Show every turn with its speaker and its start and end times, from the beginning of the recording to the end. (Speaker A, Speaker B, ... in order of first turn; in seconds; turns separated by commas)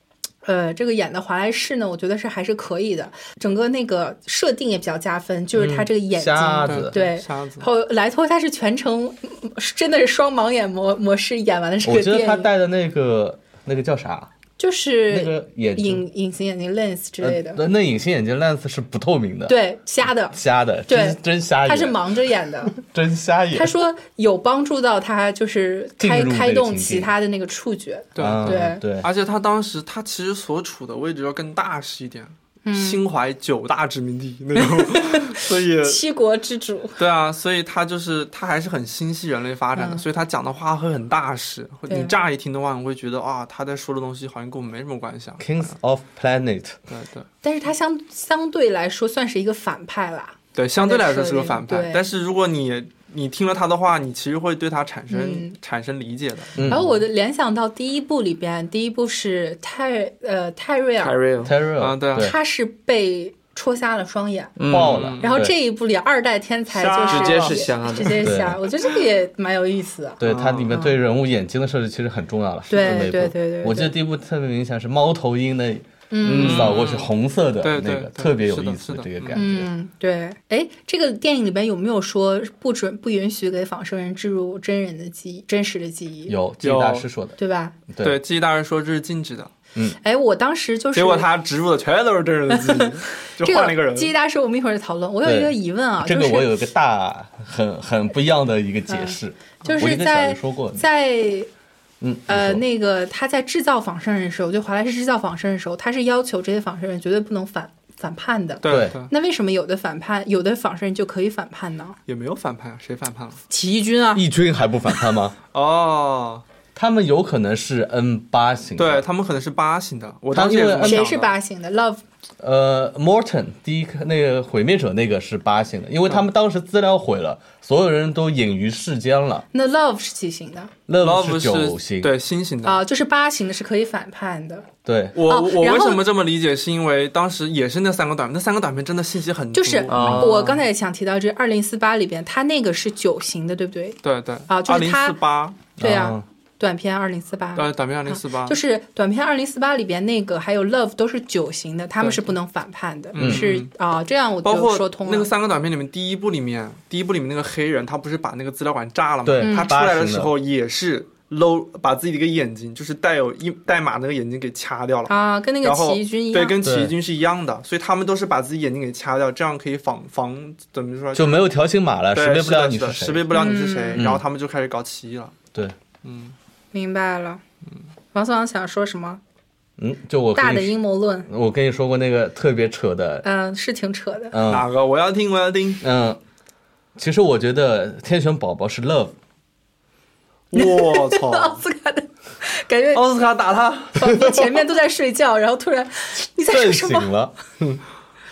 Speaker A: 0.4-12.5, Speaker B: 5.5-6.9, Speaker C: 6.7-7.7, Speaker B: 11.8-14.3, Speaker A: 14.6-17.6, Speaker B: 15.1-16.0, Speaker B: 17.2-19.6, Speaker A: 19.5-22.8, Speaker B: 20.3-22.0, Speaker B: 22.7-23.7, Speaker A: 23.5-28.8, Speaker B: 26.0-27.1, Speaker C: 28.1-36.0, Speaker B: 28.2-29.1, Speaker A: 32.6-33.0, Speaker A: 34.6-37.0, Speaker C: 37.0-45.7, Speaker A: 39.7-40.0, Speaker A: 41.9-42.1, Speaker B: 45.4-46.8, Speaker C: 46.9-47.3, Speaker A: 47.4-52.0, Speaker C: 50.5-56.5, Speaker A: 55.1-55.5, Speaker B: 56.6-56.9, Speaker A: 56.6-61.1, Speaker D: 61.0-61.5, Speaker B: 61.4-62.4, Speaker C: 61.8-62.3, Speaker A: 62.2-64.6, Speaker D: 64.6-65.1, Speaker B: 64.7-65.5, Speaker C: 64.7-65.3, Speaker A: 65.2-71.0, Speaker C: 66.7-68.1, Speaker D: 67.1-68.4, Speaker B: 68.2-68.6, Speaker B: 70.2-79.7, Speaker C: 70.2-70.7, Speaker A: 72.7-73.9, Speaker A: 76.1-76.8, Speaker C: 76.2-77.1, Speaker C: 77.6-79.4, Speaker A: 79.3-86.3, Speaker B: 86.3-87.4, Speaker C: 86.6-87.1, Speaker A: 87.4-87.7, Speaker B: 87.9-88.2, Speaker C: 88.0-89.5, Speaker A: 90.0-91.3, Speaker C: 90.9-94.1, Speaker A: 92.5-96.5, Speaker B: 95.2-100.8, Speaker A: 98.9-101.5, Speaker B: 102.0-102.6, Speaker A: 102.3-112.0, Speaker C: 108.6-109.1, Speaker B: 108.6-108.9, Speaker C: 112.1-113.4, Speaker A: 113.5-114.2, Speaker B: 114.1-115.3, Speaker C: 115.5-116.4, Speaker B: 116.7-119.0, Speaker C: 118.8-121.3, Speaker B: 120.3-121.1, Speaker A: 120.8-122.0, Speaker B: 122.4-129.4, Speaker A: 129.5-130.7, Speaker B: 130.9-132.1, Speaker C: 131.0-132.8, Speaker A: 132.6-134.7, Speaker B: 134.8-135.2, Speaker C: 135.1-140.2, Speaker A: 135.3-136.0, Speaker A: 139.5-145.2, Speaker D: 139.9-140.6, Speaker B: 139.9-140.3, Speaker C: 144.0-145.6, Speaker A: 145.8-155.3, Speaker B: 145.8-146.2, Speaker C: 147.6-148.6, Speaker C: 152.0-152.3, Speaker C: 153.1-153.7, Speaker B: 153.2-153.4, Speaker C: 154.4-171.5, Speaker B: 159.2-160.3, Speaker A: 159.4-159.7, Speaker A: 165.1-166.6, Speaker B: 166.6-166.9, Speaker B: 171.1-173.3, Speaker C: 172.1-175.3, Speaker A: 173.3-174.0, Speaker B: 173.9-174.2, Speaker C: 176.0-176.3, Speaker A: 176.7-177.4, Speaker A: 178.1-179.2, Speaker B: 179.8-180.8, Speaker A: 180.3-181.3, Speaker B: 181.3-183.2, Speaker A: 183.2-184.3, Speaker B: 184.3-184.7, Speaker C: 184.5-185.8, Speaker B: 185.8-186.2, Speaker B: 187.0-189.1, Speaker C: 190.5-191.6, Speaker A: 190.5-193.0, Speaker C: 192.9-194.3, Speaker A: 193.9-197.1, Speaker B: 196.5-197.8